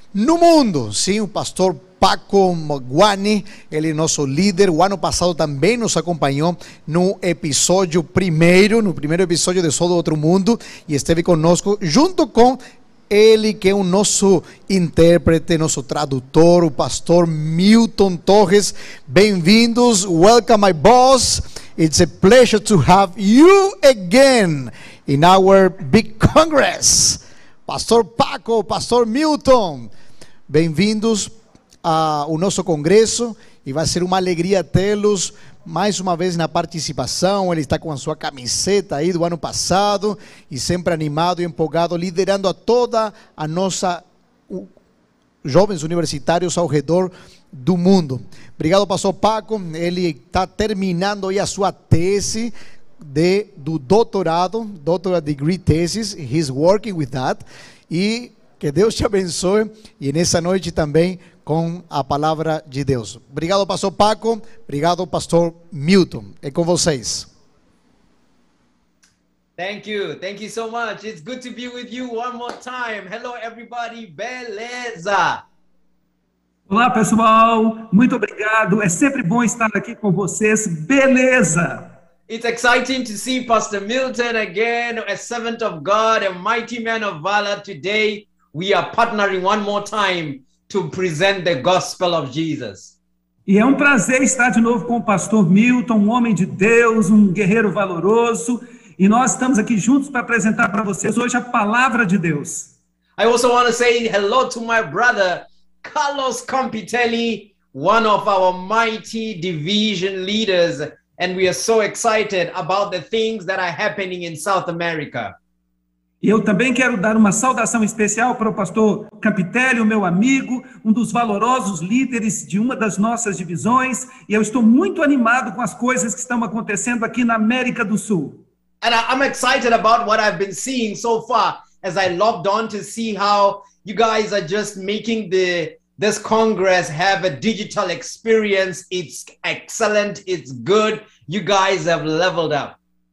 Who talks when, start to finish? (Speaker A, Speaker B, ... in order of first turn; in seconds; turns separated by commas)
Speaker A: 0.1-29.9, Speaker A: 30.5-31.3, Speaker A: 31.8-44.7, Speaker A: 45.4-67.3, Speaker B: 69.6-75.4, Speaker C: 76.7-81.9, Speaker B: 82.3-92.9, Speaker C: 93.5-102.7, Speaker B: 103.2-115.3, Speaker C: 116.2-128.4, Speaker B: 128.8-142.8